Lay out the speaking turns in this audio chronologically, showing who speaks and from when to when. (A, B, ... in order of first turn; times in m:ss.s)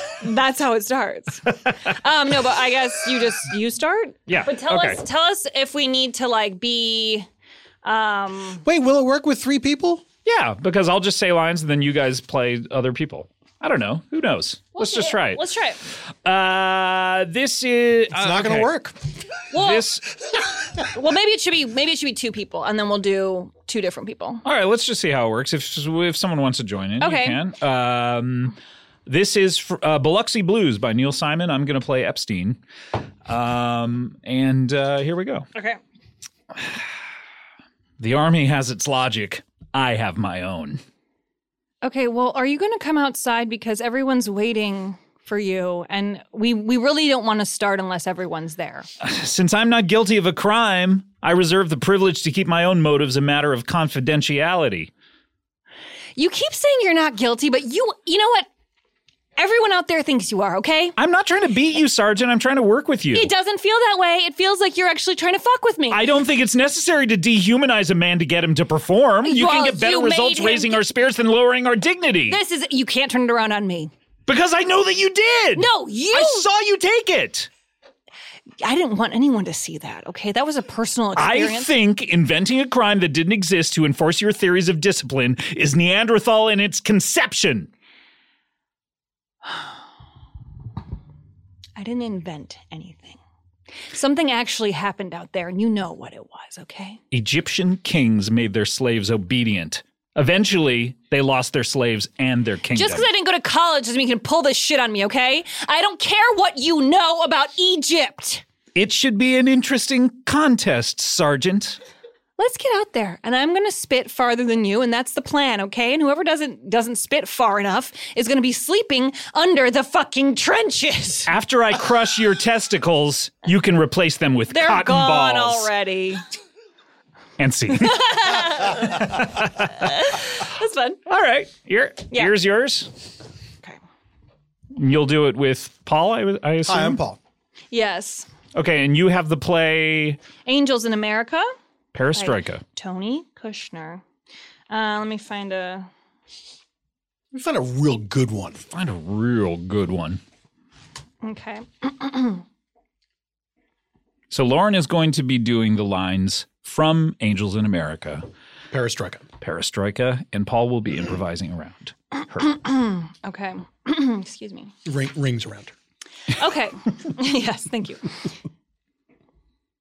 0:00.2-0:07.3 A
0:04.3-0:05.0 B
0:07.8-0:08.6 A
0:08.6-0:10.0 C
0:10.2-0:15.4 B
0:14.8-0:15.8 A
0:16.2-0:18.7 B
0:18.1-0:19.0 C
0:19.5-0:19.9 A
0:19.5-0:20.1 B
0:20.9-0:24.4 A
0:24.4-0:32.6 B
0:27.0-0:27.4 A
0:33.3-0:35.5 B
0:38.0-0:40.8 B
0:41.8-0:48.9 A
0:49.0-0:54.9 B
0:56.2-0:58.5 A
0:59.4-1:00.9 A
1:01.0-1:03.3 B
1:03.1-1:06.0 A
1:05.9-1:12.4 B
1:09.2-1:10.8 A
1:12.3-1:13.9 A
1:14.3-1:17.5 B
1:15.6-1:16.5 A
1:18.6-1:21.7 A
1:21.2-1:27.7 B
1:31.8-1:33.2 A
1:33.9-1:37.0 A
1:37.1-1:43.1 B
1:42.7-1:48.4 A
1:48.8-1:51.8 B
1:52.4-2:01.3 A
2:01.3-2:05.7 B
2:04.5-2:06.2 A
2:07.4-2:09.8 B
2:07.8-2:11.0 A
2:11.1-2:12.9 B
2:14.8-2:17.0 B
2:16.7-2:17.2 C
2:17.7-2:18.3 A
2:18.5-2:20.2 B
2:20.4-2:21.5 A
2:21.9-2:22.6 B
2:22.2-2:24.0 A
2:24.7-2:25.9 A
2:27.3-2:28.6 C
2:28.7-2:30.2 B
2:31.2-2:32.4 A
2:34.3-2:38.2 B
2:38.7-2:39.3 C
2:39.4-2:42.6 B
2:42.5-2:44.7 A
2:44.8-2:45.7 C
2:46.3-2:48.1 A